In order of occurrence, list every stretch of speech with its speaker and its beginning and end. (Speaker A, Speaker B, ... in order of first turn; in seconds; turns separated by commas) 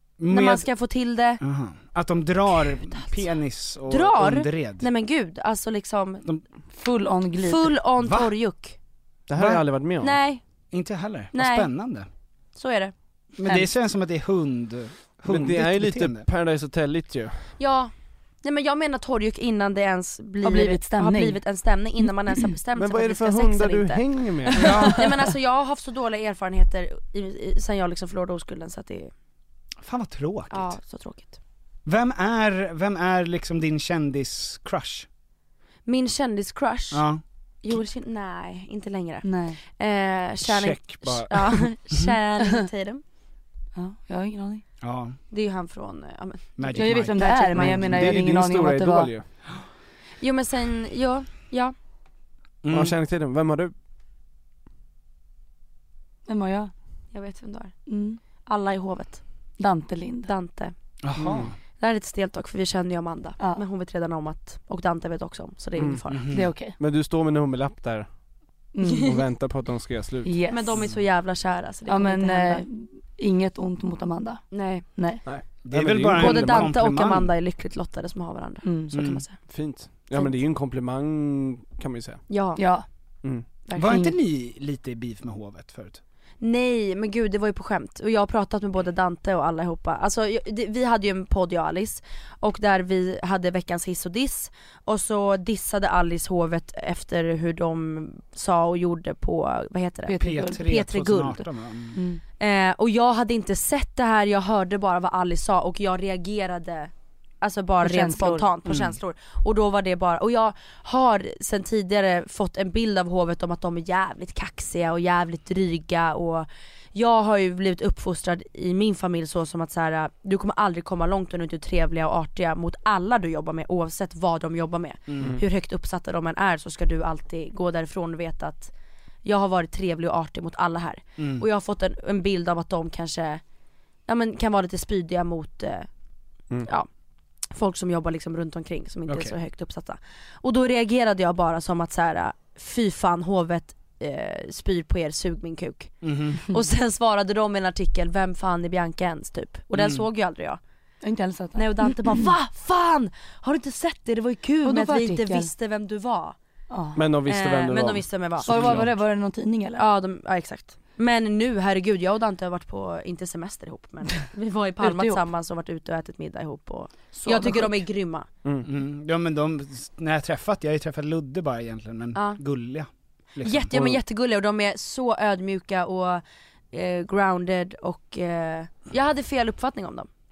Speaker A: 0.2-0.7, Speaker B: 0.3-1.4, Speaker A: 1.4-4.8, Speaker B: 2.9-3.2, Speaker B: 3.9-6.2, Speaker C: 6.7-7.7, Speaker B: 7.4-8.8, Speaker A: 8.0-8.3, Speaker D: 9.3-10.2, Speaker A: 9.3-9.6, Speaker B: 10.0-10.4, Speaker A: 10.7-12.1, Speaker B: 11.3-11.7, Speaker B: 12.5-12.9, Speaker A: 13.4-16.3, Speaker D: 15.3-17.5, Speaker B: 17.6-17.9, Speaker B: 18.4-29.1, Speaker C: 20.4-21.4, Speaker D: 22.8-24.8, Speaker A: 24.6-25.0, Speaker A: 29.8-30.8, Speaker B: 30.5-31.4, Speaker A: 31.9-35.1, Speaker B: 35.9-37.0, Speaker A: 36.9-37.2, Speaker B: 37.6-43.0, Speaker C: 39.2-39.6, Speaker D: 40.4-41.6, Speaker C: 43.7-44.6, Speaker A: 44.8-45.2, Speaker B: 45.3-47.8, Speaker A: 46.6-47.9, Speaker C: 46.7-49.1, Speaker D: 47.6-49.2, Speaker B: 50.2-51.7, Speaker A: 52.6-52.9, Speaker D: 52.7-53.7, Speaker C: 56.2-56.7, Speaker B: 57.1-57.8, Speaker C: 57.9-58.2, Speaker B: 58.4-59.2, Speaker C: 59.6-60.3, Speaker B: 60.2-60.7, Speaker A: 61.0-61.5, Speaker D: 61.2-61.5, Speaker B: 61.8-66.4, Speaker C: 63.4-63.6, Speaker D: 65.8-68.1, Speaker A: 66.1-66.5, Speaker C: 66.3-66.8, Speaker C: 68.7-69.1, Speaker D: 69.0-70.4, Speaker C: 70.2-70.8, Speaker B: 70.5-72.6, Speaker C: 71.8-75.2, Speaker B: 74.5-74.8, Speaker D: 75.2-76.7, Speaker A: 75.6-77.3, Speaker B: 76.2-79.4, Speaker C: 78.6-78.9, Speaker A: 78.9-79.2, Speaker D: 79.5-82.2, Speaker B: 82.3-82.6, Speaker C: 82.5-82.8, Speaker B: 83.7-84.1, Speaker A: 83.8-86.0, Speaker C: 83.8-84.1, Speaker B: 86.4-101.5, Speaker C: 100.0-100.7, Speaker A: 100.1-102.0, Speaker C: 101.9-102.2, Speaker B: 102.4-128.7, Speaker C: 107.8-108.5, Speaker A: 108.7-109.0, Speaker A: 125.1-125.4, Speaker B: 129.2-133.4, Speaker A: 131.2-131.4, Speaker B: 134.1-135.9, Speaker B: 137.5-145.9, Speaker A: 139.1-139.3, Speaker A: 146.0-146.4, Speaker B: 146.5-150.6, Speaker A: 149.7-150.0, Speaker C: 151.0-152.3, Speaker B: 151.5-156.3, Speaker C: 154.6-155.5, Speaker C: 156.7-157.0, Speaker D: 156.9-159.0, Speaker B: 157.2-158.8, Speaker C: 158.4-159.8, Speaker B: 159.8-168.3, Speaker C: 164.8-165.2, Speaker C: 167.1-167.8, Speaker A: 168.7-173.7, Speaker B: 172.1-172.4, Speaker B: 173.4-180.1